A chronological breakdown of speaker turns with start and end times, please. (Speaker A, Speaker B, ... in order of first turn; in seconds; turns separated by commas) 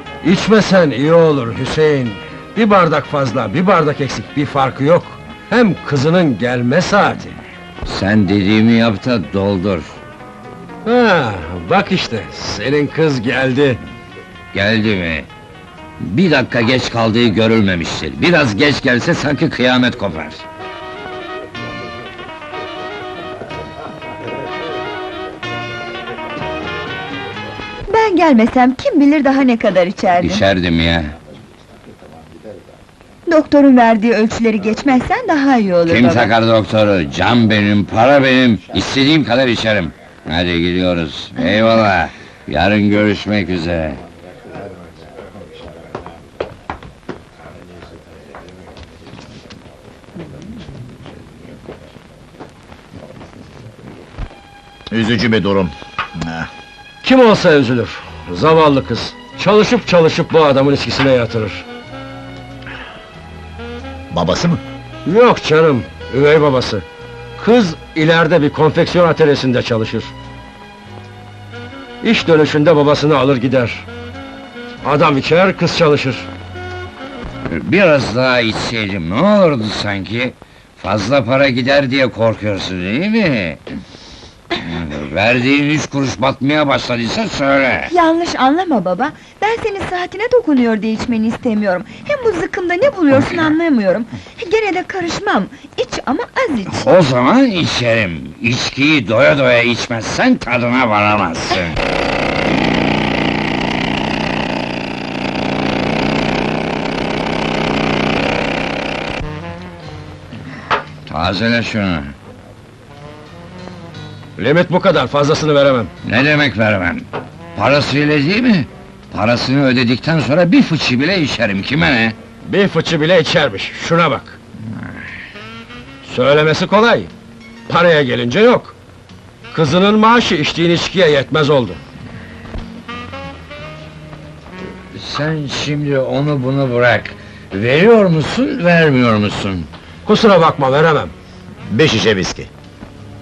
Speaker A: 0.2-7.4, Speaker B: 7.8-10.0, Speaker A: 10.8-13.8, Speaker B: 14.5-15.3, Speaker B: 16.0-20.4, Speaker C: 27.9-30.4, Speaker B: 30.2-31.1, Speaker C: 33.3-36.3, Speaker B: 35.9-44.0, Speaker D: 54.9-56.5, Speaker A: 57.0-61.6, Speaker D: 64.1-64.6, Speaker A: 65.0-66.8, Speaker A: 67.4-70.1, Speaker A: 72.0-73.9, Speaker A: 74.8-76.3, Speaker B: 77.5-83.6, Speaker B: 84.5-87.9, Speaker C: 87.9-96.9, Speaker B: 96.7-101.8, Speaker B: 111.0-112.1, Speaker A: 114.4-115.9, Speaker B: 116.0-122.2, Speaker A: 122.4-124.4, Speaker A: 126.0-127.1, Speaker A: 127.7-128.8, Speaker A: 129.5-131.8, Speaker B: 134.9-139.7, Speaker A: 140.1-141.1, Speaker D: 141.7-142.5